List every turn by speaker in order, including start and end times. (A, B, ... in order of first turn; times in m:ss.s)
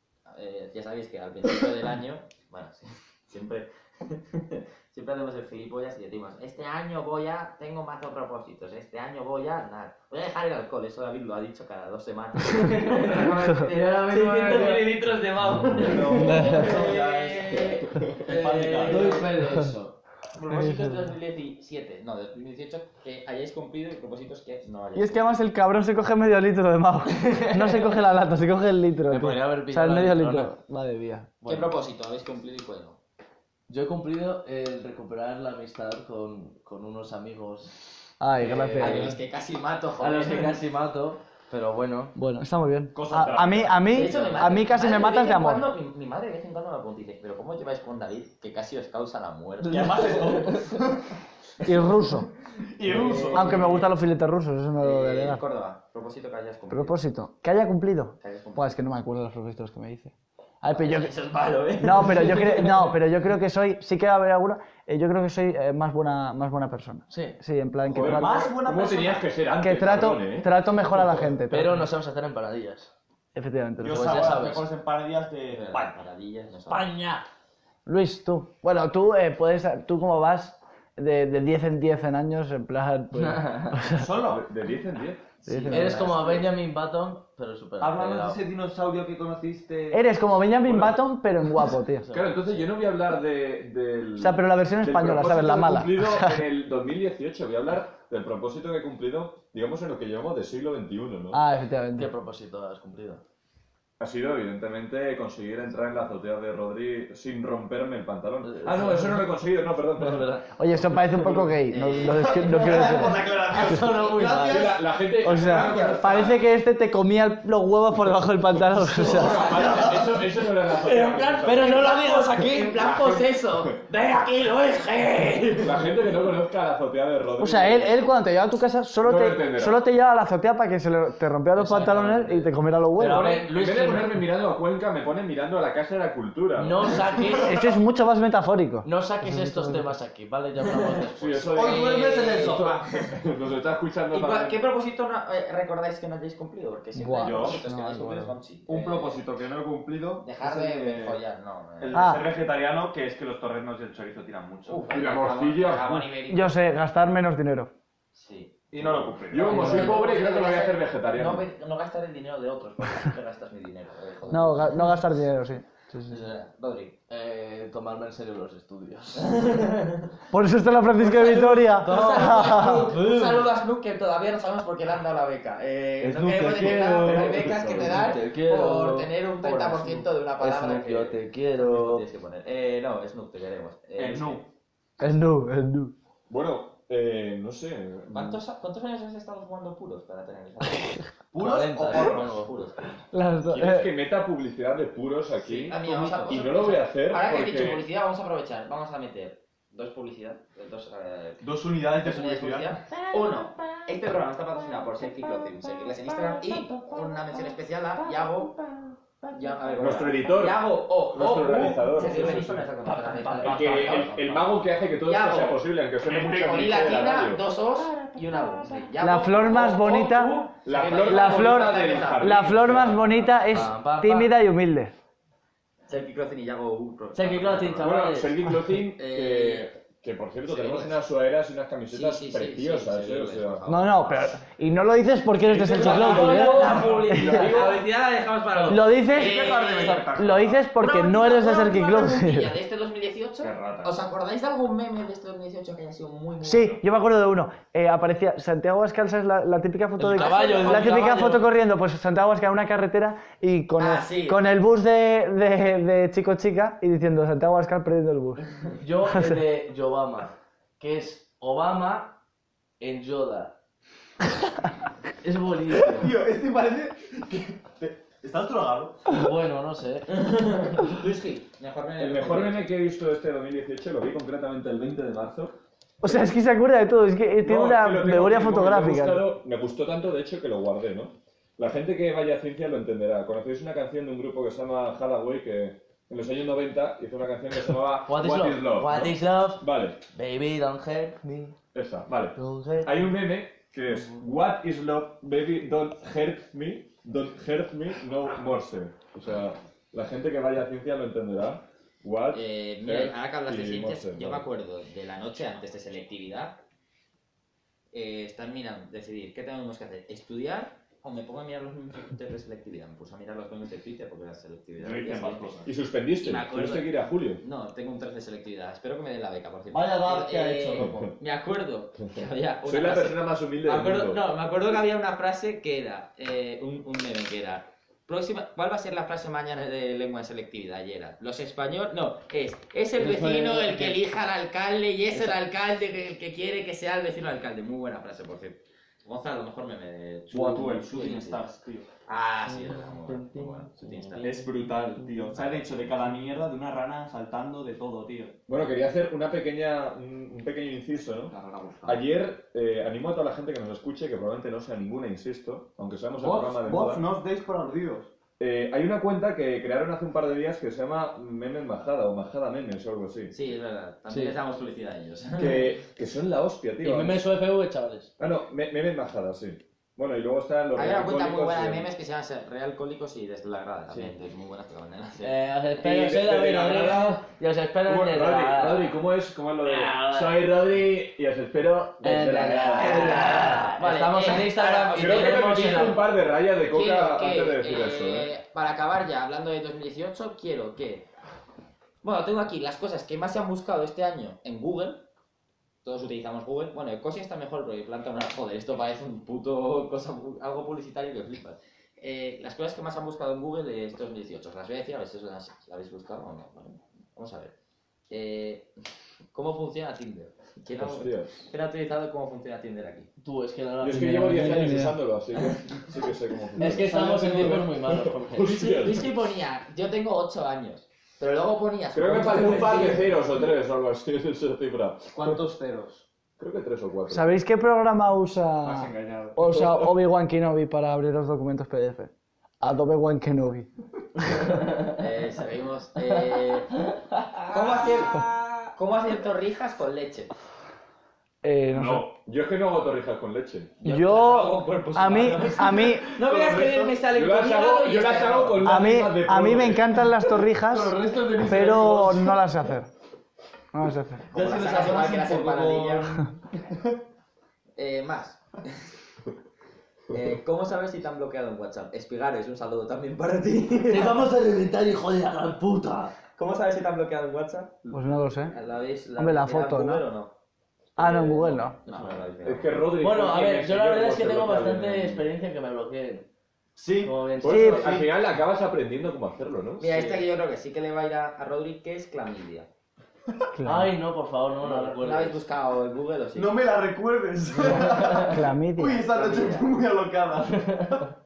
0:00.3-0:19.3 A
0:12.5-0:15.0 B
0:15.8-0:16.8 B
0:15.8-0:19.3 C
0:16.2-0:16.7 D
0:18.3-0:20.0 B
0:20.4-0:25.4 A
0:20.5-0:21.0 D
0:25.0-0:31.3 D
0:27.1-0:28.0 B
0:29.1-0:30.5 B
0:31.4-0:31.7 B
0:31.5-0:33.0 A
0:33.7-0:39.2 B
0:38.2-0:39.1 D
0:38.8-0:40.6 A
0:40.0-0:42.2 B
0:42.2-0:45.7 D
0:42.9-0:44.3 C
0:43.9-0:50.5 A
0:44.1-0:44.6 B
0:49.6-0:51.1 C
0:51.6-0:52.3 D
0:52.7-0:53.8 C
0:52.9-0:53.6 B
0:53.0-0:53.9 A
0:53.2-0:55.4 D
0:54.8-0:57.0 A
0:56.7-1:01.1 D
0:58.2-0:58.8 A
1:00.7-1:02.4 A
1:01.8-1:08.5 D
1:01.8-1:02.8 B
1:07.1-1:07.4 B
1:07.9-1:11.3 E
1:08.0-1:09.3 C
1:09.6-1:11.9 D
1:11.5-1:12.9 B
1:13.4-1:14.4 D
1:13.8-1:16.0 C
1:13.8-1:14.7 B
1:15.5-1:16.9 A
1:16.7-1:17.2 B
1:17.9-1:24.1 D
1:23.2-1:23.8 B
1:23.9-1:24.4 C
1:24.2-1:25.3 E
1:25.5-1:26.0 D
1:25.6-1:26.4 C
1:25.7-1:28.4 B
1:27.8-1:30.0 C
1:29.9-1:32.1 D
1:30.6-1:31.0 E
1:32.0-1:32.7 B
1:32.1-1:41.4 E
1:34.2-1:36.4 D
1:41.3-1:42.1 D
1:42.0-1:43.2 B
1:44.0-1:50.5 E
1:48.4-1:49.2 B
1:50.0-1:50.4 B
1:50.6-1:53.9 D
1:51.7-1:53.1 A
1:52.1-1:56.2 C
1:53.5-1:54.8 B
1:54.5-1:56.4 E
1:55.2-1:59.5 D
1:58.9-2:02.1 E
1:59.0-2:00.2 B
1:59.3-1:59.9 A
2:00.8-2:05.9 A
2:01.4-2:03.3 B
2:05.6-2:08.0 E
2:07.4-2:13.3 D
2:09.0-2:09.8 E
2:11.6-2:14.3 B
2:13.0-2:16.9 E
2:16.6-2:17.7 B
2:17.4-2:19.9 D
2:18.8-2:22.4 B
2:21.2-2:24.6 E
2:21.6-2:23.0 C
2:21.7-2:22.8 A
2:24.1-2:29.3 A
2:27.0-2:28.3 D
2:27.2-2:27.6 C
2:28.7-2:31.2 C
2:30.2-2:32.2 A
2:31.8-2:34.9 C
2:31.9-2:32.2 D
2:34.7-2:36.6 A
2:34.9-2:36.0 E
2:36.3-2:37.7 D
2:38.1-2:38.5 A
2:38.7-2:39.8 C
2:38.8-2:41.5 E
2:39.3-2:45.0 A
2:39.5-2:40.0 B
2:44.3-2:46.1 D
2:46.1-2:47.0 A
2:47.1-2:49.5 B
2:49.2-2:50.1 A
2:50.3-2:52.9 D
2:51.0-3:04.4 A
2:51.3-2:53.4 B
2:56.0-3:02.0 B
2:56.3-2:58.0 C
3:04.0-3:04.5 C
3:05.0-3:05.9 D
3:06.3-3:08.4 E
3:08.1-3:11.1 A
3:11.3-3:12.5 C
3:11.4-3:12.5 B
3:11.9-3:13.0 A
3:13.1-3:13.9 D
3:13.5-3:17.8 E
3:15.4-3:28.6 A
3:21.4-3:22.8 C
3:29.2-3:42.8 A
3:29.8-3:32.4 E
3:32.0-3:32.6 C
3:33.2-3:33.6 B
3:33.4-3:37.4 E
3:39.0-3:40.4 D
3:40.6-3:43.5 E
3:41.0-3:44.9 D
3:43.4-3:44.3 B
3:45.9-3:48.0 A
3:47.2-3:48.4 B
3:47.8-3:53.6 E
3:49.0-3:49.7 A
3:50.5-3:51.0 A
3:51.9-3:54.4 A
3:53.7-3:57.5 D
3:55.5-3:57.8 E
3:55.8-4:00.1 A
3:55.8-3:57.6 C
3:58.7-3:59.6 D
3:59.0-4:00.6 C
4:00.2-4:02.6 D
4:00.8-4:06.8 A
4:03.4-4:04.0 C
4:06.4-4:18.4 D
4:10.0-4:11.5 B
4:10.0-4:11.2 A
4:13.8-4:14.4 A
4:18.8-4:22.2 B
4:19.1-4:19.4 D
4:22.8-4:23.6 B
4:25.2-4:26.1 B
4:26.0-4:29.1 C
4:29.1-4:30.1 B
4:30.1-4:32.7 A
4:32.0-4:36.3 E
4:36.0-4:39.3 D
4:37.4-4:50.0 E
4:48.1-4:51.6 B
4:51.7-5:04.4 E
4:52.4-4:53.1 B
5:02.3-5:06.6 A
5:07.9-5:15.6 A
5:14.8-5:15.7 C
5:15.6-5:17.4 E
5:16.2-5:41.4 A
5:19.7-5:21.1 C
5:20.8-5:21.1 E
5:22.6-5:24.2 E
5:33.0-5:34.0 B
5:40.3-5:41.9 C
5:42.1-5:44.3 A
5:42.5-5:45.4 B
5:44.2-5:48.4 C
5:48.5-5:57.1 E
5:51.3-5:52.1 C
5:56.2-5:58.1 C
5:58.4-6:03.3 E
6:03.3-6:05.7 A
6:04.1-6:04.4 B
6:05.4-6:07.2 E
6:06.8-6:08.1 B
6:08.2-6:11.9 E
6:10.8-6:15.4 A
6:15.2-6:19.0 B
6:15.8-6:17.2 E
6:17.9-6:23.3 E
6:19.6-6:20.5 B
6:22.0-6:26.0 B
6:22.7-6:26.0 A
6:24.9-6:28.3 E
6:26.7-6:31.1 A
6:32.0-6:35.1 A
6:35.8-6:47.5 A
6:48.1-6:48.7 A
6:49.3-6:53.1 A
6:50.8-6:51.5 E
6:53.2-6:54.8 B
6:53.8-6:59.1 E
6:53.9-6:55.0 D
6:56.6-6:58.8 B
6:58.4-7:03.2 A
7:01.9-7:05.4 E
7:05.2-7:06.0 C
7:06.4-7:07.3 E
7:07.1-7:13.7 D
7:08.6-7:09.5 C
7:09.5-7:09.9 E
7:14.3-7:14.9 B
7:14.9-7:16.7 A
7:17.1-7:17.5 B
7:17.5-7:20.3 A
7:17.5-7:18.7 C
7:21.4-7:22.1 D
7:21.7-7:23.7 E
7:23.8-7:28.7 A
7:23.8-7:26.1 D
7:25.6-7:27.0 C
7:27.1-7:30.1 E
7:28.6-7:32.9 D
7:30.7-7:32.0 C
7:31.0-7:32.2 E
7:33.7-7:34.3 D
7:34.3-7:37.0 C
7:34.3-7:36.2 A
7:37.8-7:38.9 A
7:40.1-7:44.2 A
7:43.9-7:46.1 B
7:46.4-7:47.9 A
7:47.9-7:48.6 D
7:48.5-7:50.3 A
7:49.2-7:50.0 D
7:51.0-7:51.8 D
7:51.0-7:52.9 A
7:51.9-7:52.3 B
7:52.4-7:55.2 E
7:53.0-7:56.3 B
7:56.8-7:57.3 C
7:57.0-7:58.0 B
7:57.4-8:00.2 E
7:57.4-7:58.1 D
7:59.8-8:02.7 A
8:03.5-8:03.9 D
8:03.6-8:05.4 B
8:04.6-8:06.6 A
8:06.4-8:11.1 C
8:07.6-8:08.3 B
8:08.2-8:09.1 D
8:09.1-8:09.7 A
8:10.5-8:11.0 B